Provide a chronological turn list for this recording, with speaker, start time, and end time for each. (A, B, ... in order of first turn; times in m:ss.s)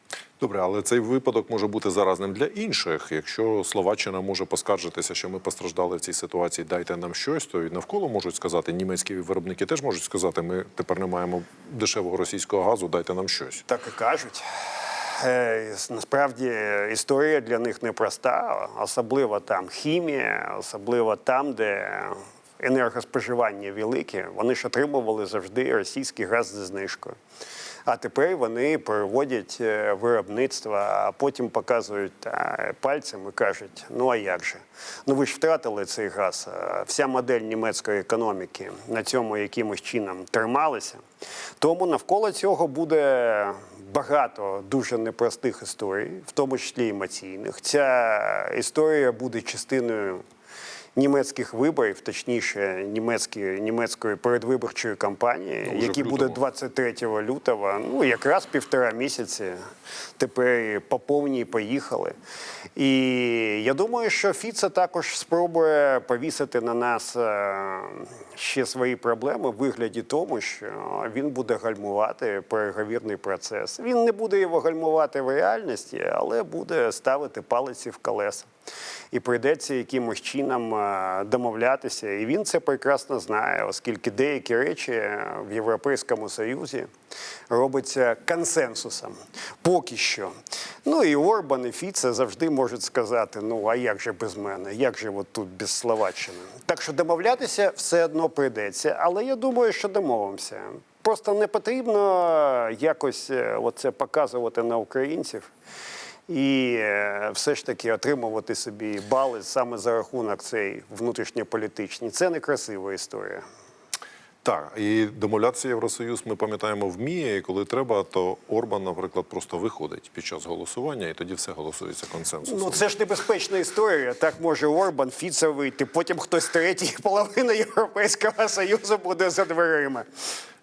0:00.4-0:13.6 A
0:13.7-0:27.2 B
0:27.8-0:41.0 B
0:41.6-0:50.2 B
0:50.9-0:59.6 B
0:55.6-0:56.4 A
1:00.2-1:02.2 B
1:02.8-1:18.5 B
1:19.1-1:26.9 B
1:27.5-1:30.3 B
1:30.8-1:45.5 B
1:46.3-1:53.4 B
1:54.4-2:02.8 A
2:02.4-2:10.0 B